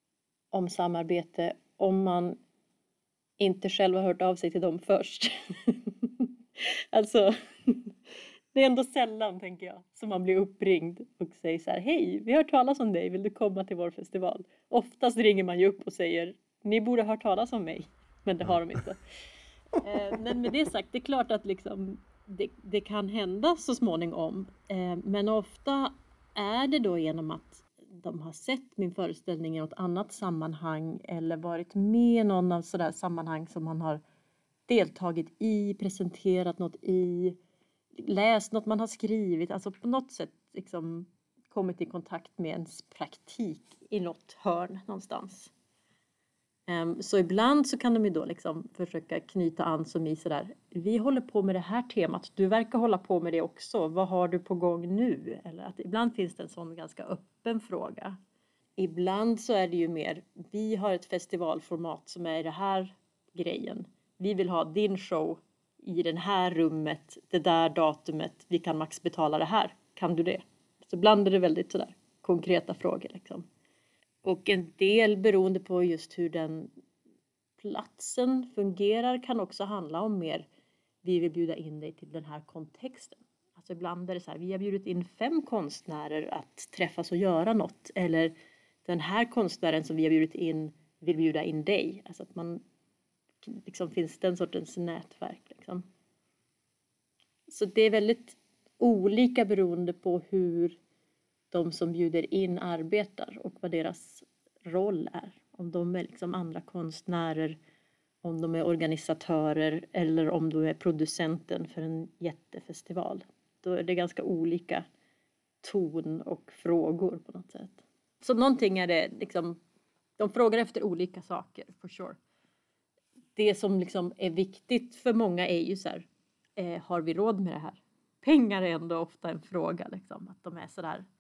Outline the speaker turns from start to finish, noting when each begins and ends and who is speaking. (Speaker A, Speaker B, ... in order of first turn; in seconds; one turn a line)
Speaker A: 0.5-2.4
Speaker A: 3.4-8.0
Speaker A: 8.5-19.0
Speaker A: 19.8-34.0
Speaker A: 34.7-37.4
Speaker A: 38.0-45.5
Speaker A: 46.7-58.2
Speaker A: 58.8-73.5
Speaker A: 74.2-76.7
Speaker A: 77.6-80.5
Speaker A: 81.0-88.3
Speaker A: 88.8-92.6
Speaker A: 93.4-95.8
Speaker A: 97.5-100.8
Speaker A: 101.5-107.6
Speaker A: 108.2-114.8
Speaker A: 115.6-119.6
Speaker A: 120.2-122.2
Speaker A: 123.3-131.1